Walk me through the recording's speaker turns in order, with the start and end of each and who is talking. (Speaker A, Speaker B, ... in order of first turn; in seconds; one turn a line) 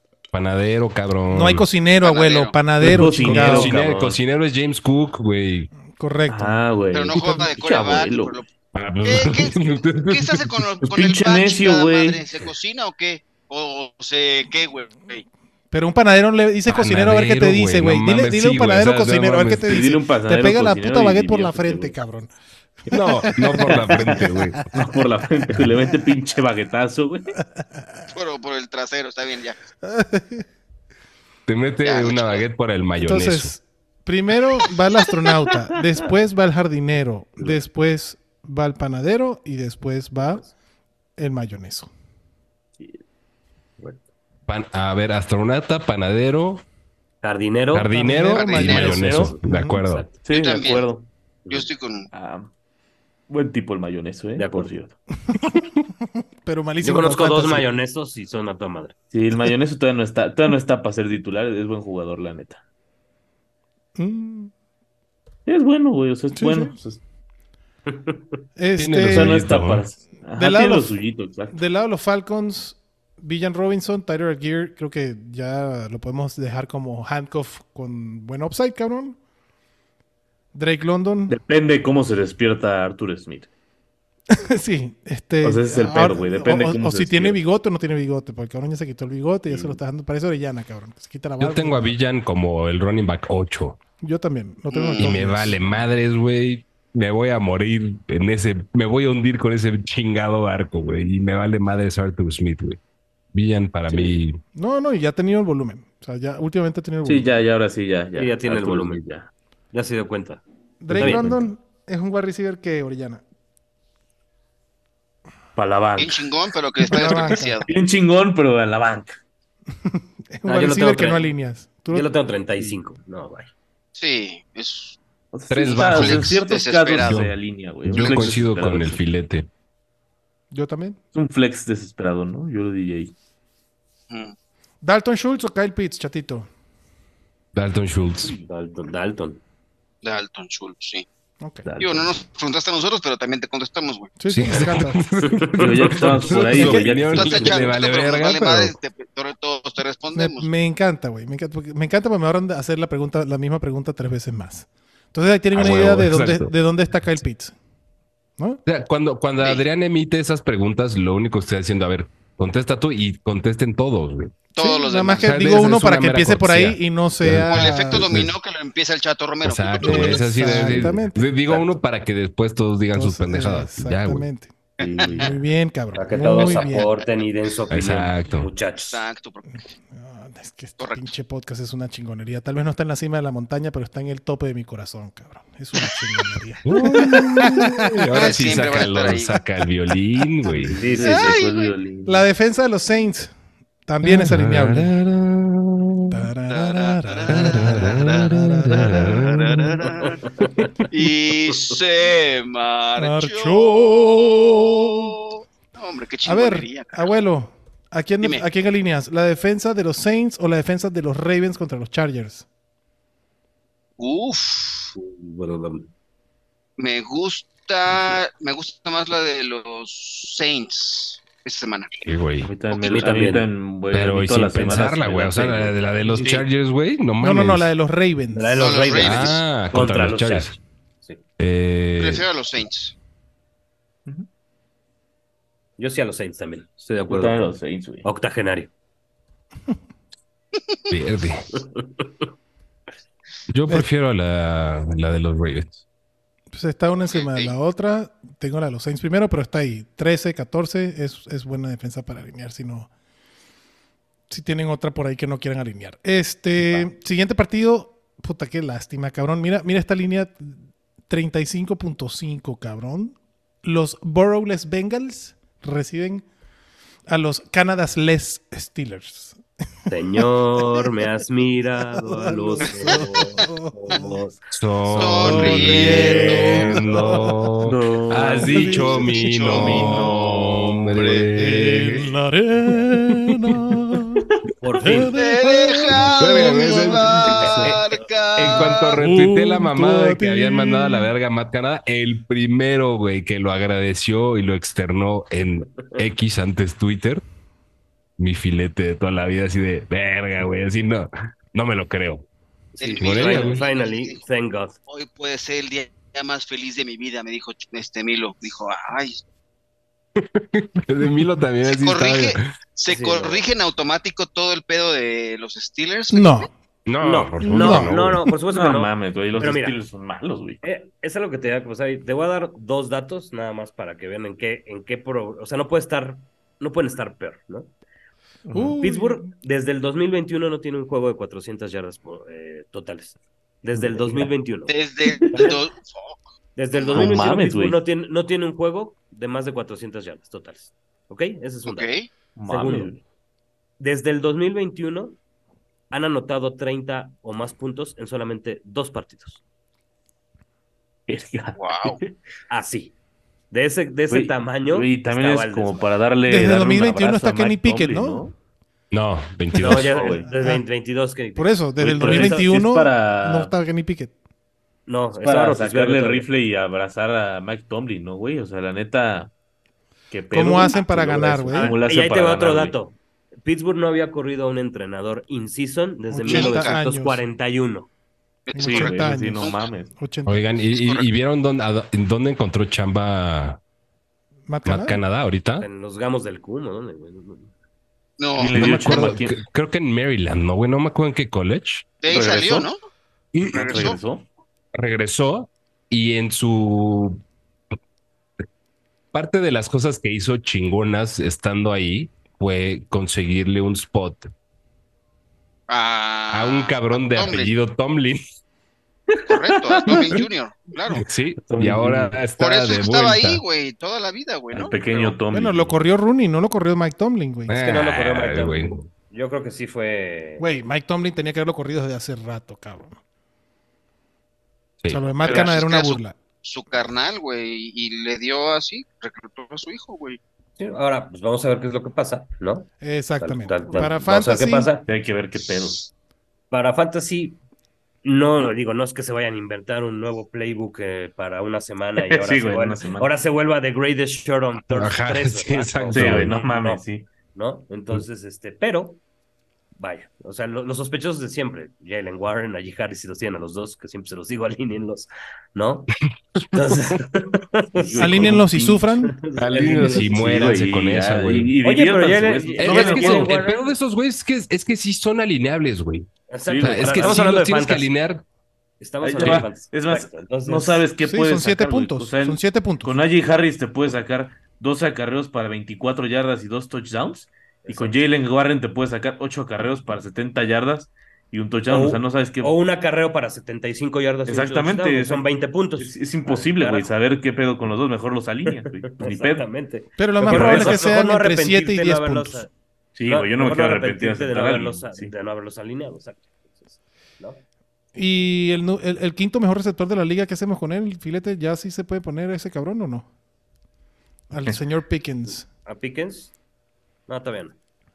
Speaker A: 0.3-1.6
Speaker B: 1.3-3.8
Speaker C: 2.0-2.5
Speaker D: 2.8-4.2
Speaker A: 2.8-5.7
Speaker B: 5.9-6.6
Speaker D: 6.3-8.4
Speaker C: 6.9-8.4
Speaker A: 8.7-10.7
Speaker C: 9.0-15.2
Speaker D: 10.8-12.2
Speaker B: 15.7-22.3
Speaker A: 16.7-19.9
Speaker D: 19.6-21.9
Speaker B: 22.9-24.7
Speaker A: 22.9-24.6
Speaker D: 24.7-27.4
Speaker C: 28.1-29.6
Speaker B: 29.8-30.4
Speaker A: 31.5-33.5
Speaker C: 31.8-32.4
Speaker B: 33.0-40.5
Speaker B: 41.2-41.9
Speaker E: 43.8-44.0
Speaker A: 44.5-46.6
Speaker E: 47.2-47.9
Speaker A: 47.7-50.0
Speaker B: 47.9-49.8
Speaker C: 48.3-49.1
Speaker E: 48.7-50.2
Speaker D: 50.2-52.5
Speaker C: 50.3-50.9
Speaker C: 51.5-52.1
Speaker D: 53.3-54.9
Speaker E: 54.4-54.7
Speaker B: 55.3-55.7
Speaker B: 56.4-57.7
Speaker E: 56.8-58.9
Speaker D: 59.1-62.6
Speaker B: 64.0-64.5
Speaker D: 65.5-67.0
Speaker B: 66.3-66.7
Speaker E: 67.9-68.2
Speaker B: 68.6-69.4
Speaker A: 68.8-69.8
Speaker D: 69.0-71.6
Speaker B: 70.3-70.9
Speaker B: 71.5-79.2
Speaker B: 80.5-81.4
Speaker D: 81.3-83.5
Speaker B: 84.3-92.0
Speaker D: 85.4-87.4
Speaker D: 89.5-89.8
Speaker A: 91.4-93.8
Speaker B: 94.0-95.6
Speaker C: 94.7-95.2
Speaker A: 95.0-102.8
Speaker A: 103.3-104.4
Speaker B: 104.5-107.3
Speaker D: 107.0-109.3
Speaker E: 108.1-109.0
Speaker E: 109.7-111.4
Speaker B: 110.8-113.2
Speaker D: 110.9-111.3
Speaker D: 115.5-116.3
Speaker C: 116.0-117.7
Speaker B: 116.9-117.6
Speaker D: 117.7-119.2
Speaker B: 119.8-122.1
Speaker E: 120.5-121.3
Speaker E: 121.9-123.5
Speaker C: 124.0-125.0
Speaker D: 125.3-129.0
Speaker A: 125.5-126.4
Speaker C: 125.6-127.2
Speaker A: 127.0-127.3
Speaker A: 127.8-129.5
Speaker B: 130.5-131.0
Speaker D: 131.1-133.1
Speaker C: 134.1-134.3
Speaker B: 134.8-136.5
Speaker A: 137.5-138.3
Speaker E: 138.4-139.4
Speaker C: 140.0-141.1
Speaker B: 141.4-141.7
Speaker D: 141.6-142.1
Speaker C: 141.8-144.1
Speaker B: 144.2-145.0
Speaker A: 144.3-148.8
Speaker D: 145.6-147.8
Speaker B: 146.5-146.8
Speaker C: 146.6-150.5
Speaker B: 150.1-157.5
Speaker A: 155.5-156.5
Speaker A: 158.7-164.3
Speaker B: 164.6-168.1
Speaker C: 164.6-165.4
Speaker A: 165.1-168.3
Speaker C: 167.5-170.4
Speaker A: 169.4-174.3
Speaker B: 169.8-171.3
Speaker B: 172.9-174.5
Speaker C: 174.8-175.3
Speaker D: 174.8-175.4
Speaker B: 175.1-176.9
Speaker E: 175.9-179.1
Speaker A: 177.7-178.5
Speaker C: 178.7-179.6
Speaker B: 179.9-188.0
Speaker A: 186.6-190.8
Speaker C: 188.1-189.4
Speaker E: 190.6-191.4
Speaker D: 190.8-192.3
Speaker B: 191.0-191.4
Speaker C: 191.1-191.7
Speaker B: 192.0-193.3
Speaker B: 193.9-194.9
Speaker A: 194.0-196.1
Speaker B: 196.1-199.2
Speaker C: 196.5-200.3
Speaker A: 197.3-199.8
Speaker C: 200.9-207.1
Speaker B: 203.0-205.2
Speaker B: 206.2-212.4
Speaker C: 214.0-214.9
Speaker E: 214.9-215.9
Speaker C: 216.8-222.0
Speaker A: 222.0-222.5
Speaker D: 222.4-225.8
Speaker E: 222.7-223.5
Speaker A: 223.9-227.7
Speaker B: 227.2-228.8
Speaker E: 228.3-231.2
Speaker C: 228.6-229.4
Speaker A: 228.9-230.6
Speaker A: 231.4-232.2
Speaker C: 232.0-232.9
Speaker E: 235.8-237.5
Speaker D: 237.1-238.1
Speaker E: 238.0-238.7
Speaker A: 240.9-241.5
Speaker E: 241.5-242.1
Speaker A: 243.5-245.8
Speaker B: 246.5-252.9
Speaker C: 247.1-247.5
Speaker B: 254.3-266.2
Speaker B: 267.1-269.4
Speaker E: 269.9-274.4
Speaker B: 272.0-274.2
Speaker A: 274.5-282.1
Speaker B: 274.9-277.4
Speaker C: 274.9-276.9
Speaker D: 277.6-281.9
Speaker B: 278.4-279.9
Speaker C: 278.8-280.0
Speaker B: 281.4-284.2
Speaker E: 284.6-285.1
Speaker B: 284.8-287.5
Speaker C: 285.1-289.0
Speaker A: 286.0-287.8
Speaker D: 287.3-287.8
Speaker A: 288.4-297.2
Speaker B: 288.9-291.1
Speaker A: 298.2-302.2
Speaker E: 302.7-304.8
Speaker C: 302.8-304.2
Speaker A: 303.0-303.6
Speaker C: 304.9-309.2
Speaker A: 310.2-312.5
Speaker C: 311.7-316.5
Speaker E: 312.9-313.5
Speaker B: 316.1-316.5
Speaker A: 316.9-318.2
Speaker E: 317.0-319.8
Speaker B: 317.4-317.9
Speaker D: 318.5-320.6
Speaker E: 320.6-327.7
Speaker D: 328.5-328.7
Speaker B: 328.5-329.3
Speaker E: 328.8-334.7
Speaker D: 333.8-334.3
Speaker C: 334.7-337.3
Speaker E: 336.6-341.9
Speaker D: 336.9-337.8
Speaker C: 341.6-342.1
Speaker D: 342.4-343.0
Speaker E: 342.5-342.9
Speaker E: 343.8-345.1
Speaker E: 345.9-349.4
Speaker D: 351.1-352.1
Speaker C: 351.6-352.0
Speaker E: 352.5-352.9
Speaker E: 353.5-355.9
Speaker D: 354.1-358.3
Speaker B: 356.3-358.2
Speaker A: 358.9-359.9
Speaker E: 359.6-362.5
Speaker D: 359.6-360.3
Speaker B: 360.3-360.6
Speaker B: 361.3-364.1
Speaker D: 361.8-363.5
Speaker E: 364.9-366.3
Speaker D: 365.2-369.3
Speaker D: 370.1-372.8
Speaker B: 370.3-371.8
Speaker E: 371.5-377.9
Speaker B: 376.1-377.2
Speaker C: 376.3-376.8
Speaker C: 378.4-379.6
Speaker B: 378.5-380.4
Speaker D: 378.6-379.9
Speaker A: 380.2-383.6
Speaker C: 380.7-381.1
Speaker B: 384.5-385.0
Speaker A: 384.6-385.7
Speaker E: 385.6-387.5
Speaker C: 388.2-388.7
Speaker D: 388.4-389.4
Speaker A: 388.5-391.9
Speaker B: 388.6-389.2
Speaker C: 392.0-392.8
Speaker D: 392.1-392.7
Speaker A: 393.3-393.9
Speaker D: 393.4-394.2
Speaker C: 393.4-394.0
Speaker A: 394.7-397.2
Speaker A: 399.1-404.3
Speaker C: 405.7-407.5
Speaker A: 406.3-408.2
Speaker D: 409.1-410.2
Speaker C: 409.3-411.1
Speaker A: 410.9-413.4
Speaker D: 411.4-412.2
Speaker C: 412.4-415.1
Speaker D: 414.5-415.8
Speaker B: 415.3-417.6
Speaker A: 417.5-418.9
Speaker E: 417.5-420.4
Speaker B: 420.4-423.0
Speaker B: 424.9-426.1
Speaker C: 425.2-430.2
Speaker E: 430.6-432.7
Speaker B: 432.8-434.7
Speaker E: 433.2-434.9
Speaker D: 434.9-435.9
Speaker E: 436.5-437.4
Speaker E: 438.0-446.8
Speaker D: 442.0-443.1
Speaker A: 444.7-446.4
Speaker D: 445.9-447.1
Speaker E: 447.3-449.0
Speaker E: 449.8-455.9
Speaker A: 456.4-456.7
Speaker E: 456.5-458.5
Speaker D: 457.7-458.8
Speaker B: 458.0-459.1
Speaker E: 459.0-460.6
Speaker A: 459.4-461.5
Speaker D: 459.6-463.4
Speaker E: 461.6-463.7
Speaker A: 462.6-466.1
Speaker E: 466.3-467.9
Speaker D: 466.5-467.3
Speaker A: 466.6-468.2
Speaker E: 468.8-470.9
Speaker D: 469.0-482.5
Speaker B: 471.0-472.9
Speaker E: 477.6-478.0
Speaker E: 481.7-486.9
Speaker D: 484.3-485.2
Speaker D: 485.8-489.5
Speaker E: 488.5-492.5
Speaker B: 490.0-492.4
Speaker D: 490.2-490.9
Speaker D: 492.9-495.1
Speaker E: 493.1-497.4
Speaker B: 497.9-503.1
Speaker B: 504.3-505.5
Speaker E: 505.6-506.3
Speaker E: 507.1-507.6